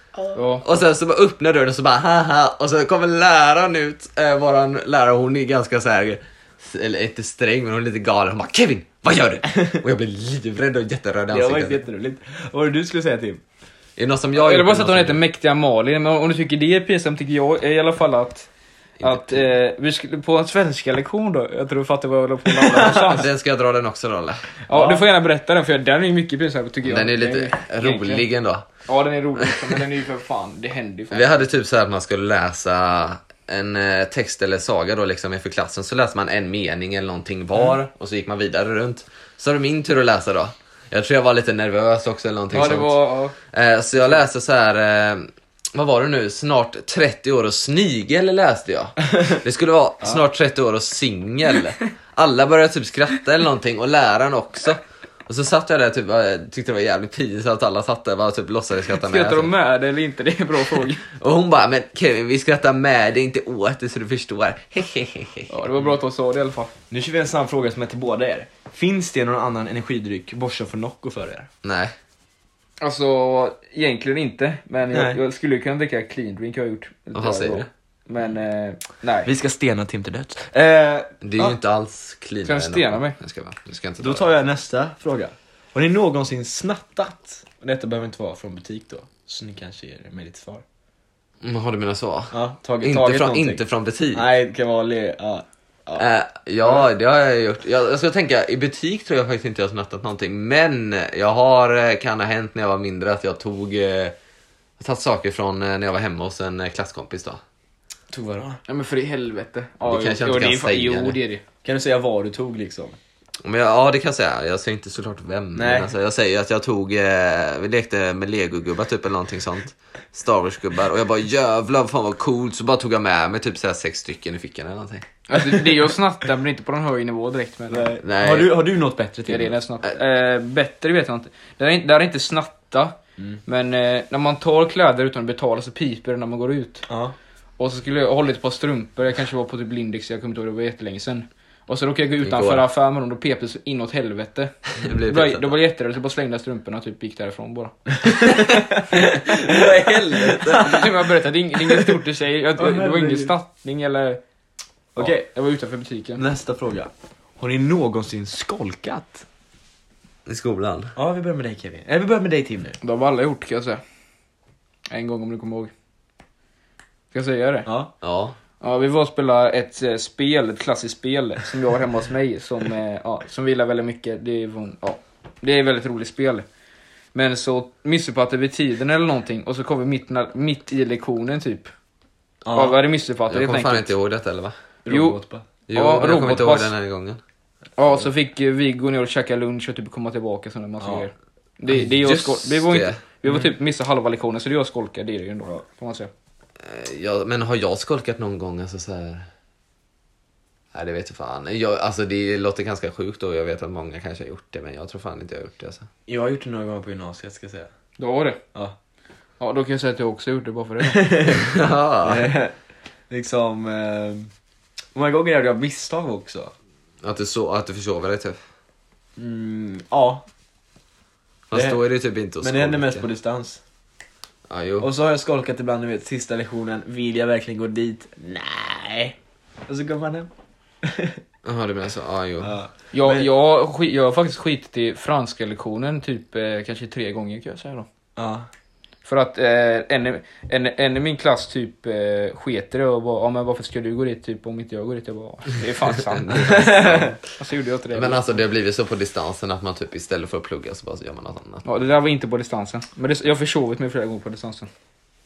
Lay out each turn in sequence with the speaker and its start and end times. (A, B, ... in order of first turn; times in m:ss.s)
0:00.3-0:00.6 A
0:00.6-0:11.8 B
0:09.5-0:09.8 C
0:11.3-0:13.4 C
0:14.0-0:15.2 B
0:14.3-0:18.5 A
0:19.0-0:19.4 B
0:19.0-0:23.3 A
0:22.7-0:24.5 B
0:24.7-0:28.3 A
0:24.7-0:25.0 C
0:26.8-0:28.7 B
0:28.9-0:31.4 A
0:29.4-0:29.8 B
0:31.1-0:59.5 B
0:42.5-0:43.3 A
0:42.5-0:42.8 C
0:58.9-1:01.1 A
1:01.1-1:05.5 B
1:05.5-1:06.7 A
1:06.9-1:11.5 C
1:11.6-1:11.9 B
1:12.8-1:19.3 A
1:14.9-1:15.2 C
1:17.1-1:17.7 B
1:19.2-1:21.6 C
1:21.2-1:24.3 B
1:22.4-1:23.2 A
1:24.0-1:30.6 C
1:31.4-1:34.3 B
1:32.3-1:33.6 C
1:34.1-1:36.0 C
1:36.0-1:44.1 B
1:44.8-1:47.4 B
1:48.1-1:48.6 C
1:48.7-1:51.4 A
1:49.9-1:51.2 B
1:51.6-1:53.0 C
1:53.4-2:05.0 B
1:55.5-1:55.9 C
2:05.3-2:07.9 A
2:07.7-2:09.6 C
2:08.0-2:08.5 B
2:09.3-2:16.8 A
2:16.9-2:17.1 C
2:17.6-2:28.3 A
2:22.2-2:22.6 B
2:24.8-2:25.5 B
2:28.0-2:30.9 C
2:28.3-2:30.9 B
2:30.3-2:34.2 A
2:31.7-2:32.0 C
2:32.6-2:33.3 C
2:35.0-2:35.2 C
2:35.0-2:36.2 A
2:36.2-2:39.2 C
2:40.2-2:40.9 B
2:41.0-2:42.8 C
2:42.8-2:43.8 A
2:44.9-2:45.7 A
2:47.1-2:47.7 A
2:47.6-2:47.9 C
2:48.0-2:48.4 B
2:48.6-2:56.4 A
2:57.1-3:01.7 A
3:02.4-3:02.8 C
3:02.5-3:03.9 A
3:03.3-3:04.5 B
3:04.8-3:05.4 C
3:04.9-3:05.2 A
3:05.7-3:07.2 B
3:05.7-3:06.7 A
3:07.8-3:16.1 A
3:10.8-3:11.1 C
3:11.7-3:13.0 B
3:13.2-3:13.5 C
3:16.6-3:19.3 B
3:20.7-3:25.9 B
3:26.1-3:27.7 C
3:28.0-3:28.4 A
3:29.4-3:31.1 A
3:30.8-3:31.5 C
3:31.3-3:32.3 B
3:32.0-3:32.5 C
3:33.1-3:34.3 C
3:34.9-3:36.5 C
3:37.0-3:38.4 B
3:39.2-3:40.2 C
3:41.5-3:43.0 B
3:41.5-3:41.8 C
3:42.4-3:43.6 C
3:44.5-3:44.9 B
3:44.8-3:49.2 C
3:49.7-3:50.3 C
3:50.8-3:51.2 C
3:51.4-3:52.5 B
3:52.4-3:53.3 C
3:52.9-3:57.9 A
3:58.2-3:58.5 C
3:59.0-4:08.3 A
4:06.0-4:07.1 B
4:06.3-4:07.2 C
4:07.9-4:11.6 B
4:11.6-4:14.7 A